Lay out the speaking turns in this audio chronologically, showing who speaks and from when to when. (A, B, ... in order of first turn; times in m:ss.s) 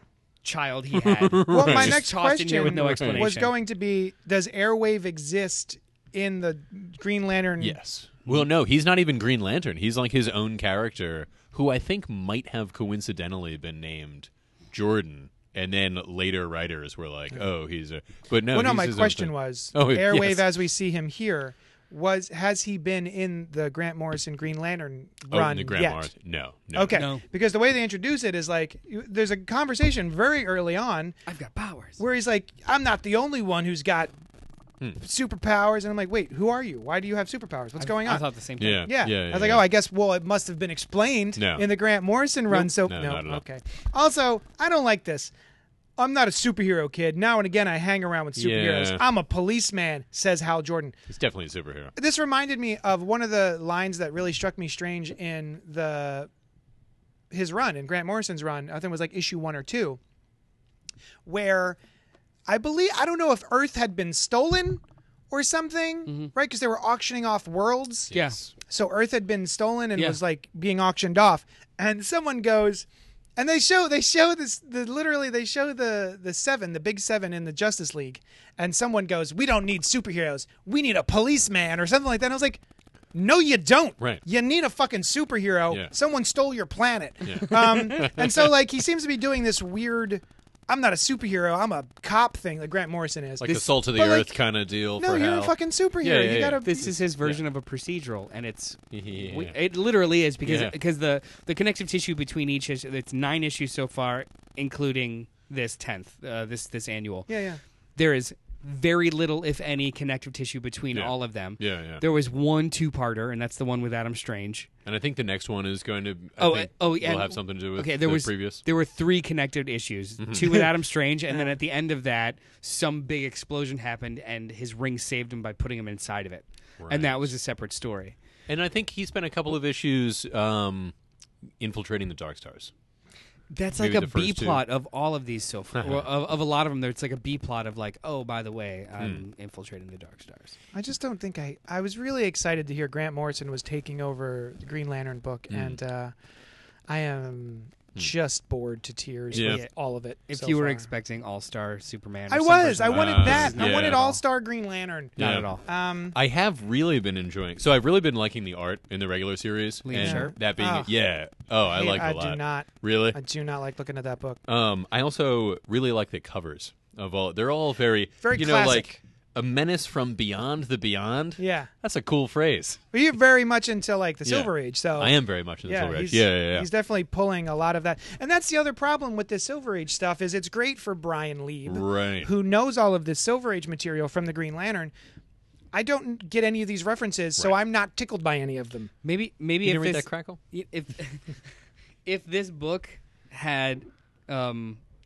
0:00.4-0:03.5 A
0:00.9-0:02.0 B
0:01.5-0:07.8 C
0:02.6-0:03.2 B
0:07.6-0:20.5 B
0:18.5-0:26.1 C
0:25.3-0:27.0 B
0:26.7-0:31.2 C
0:26.9-0:27.2 A
0:31.3-0:32.0 A
0:32.0-0:34.1 C
0:35.0-0:38.2 C
0:37.8-0:38.9 A
0:38.6-0:39.6 B
0:38.8-0:45.3 C
0:41.4-0:41.7 B
0:42.5-0:43.4 B
0:46.0-0:50.9 C
0:48.4-0:49.0 B
0:51.1-0:51.9 B
0:52.0-0:56.3 C
0:57.3-1:00.0 C
1:01.2-1:01.8 C
1:02.5-1:12.9 C
1:06.1-1:06.3 A
1:08.1-1:08.5 B
1:08.1-1:08.4 A
1:13.4-1:22.6 C
1:23.1-1:34.4 C
1:27.2-1:28.5 B
1:33.4-1:37.4 B
1:35.0-1:36.7 C
1:36.6-1:47.3 A
1:38.9-1:39.6 B
1:40.4-1:40.8 B
1:47.3-1:47.6 C
1:48.0-1:54.7 A
1:50.9-1:52.0 B
1:54.9-1:58.6 B
1:56.4-2:08.2 A
2:00.2-2:00.6 B
2:06.8-2:07.3 B
2:08.5-2:10.9 B
2:11.6-2:12.7 B
2:13.5-2:20.6 A
2:13.7-2:14.6 B
2:15.7-2:16.1 B
2:20.7-2:26.1 C
2:25.5-2:25.8 B
2:26.9-2:30.9 C
2:29.3-2:29.6 B
2:29.3-2:29.7 A
2:30.3-2:34.2 A
2:32.3-2:36.2 C
2:32.9-2:34.0 B
2:35.2-2:35.5 B
2:35.2-2:35.6 A
2:36.1-2:43.2 B
2:39.8-2:40.3 A
2:40.0-2:40.9 C
2:41.7-2:44.4 C
2:44.5-2:52.8 B
2:48.2-2:49.0 C
2:51.4-2:51.7 C
2:52.9-3:04.9 C
2:54.2-2:56.7 B
3:01.6-3:02.3 B
3:05.7-3:08.9 C
3:09.0-3:11.4 A
3:09.6-3:10.4 B
3:12.1-3:14.8 A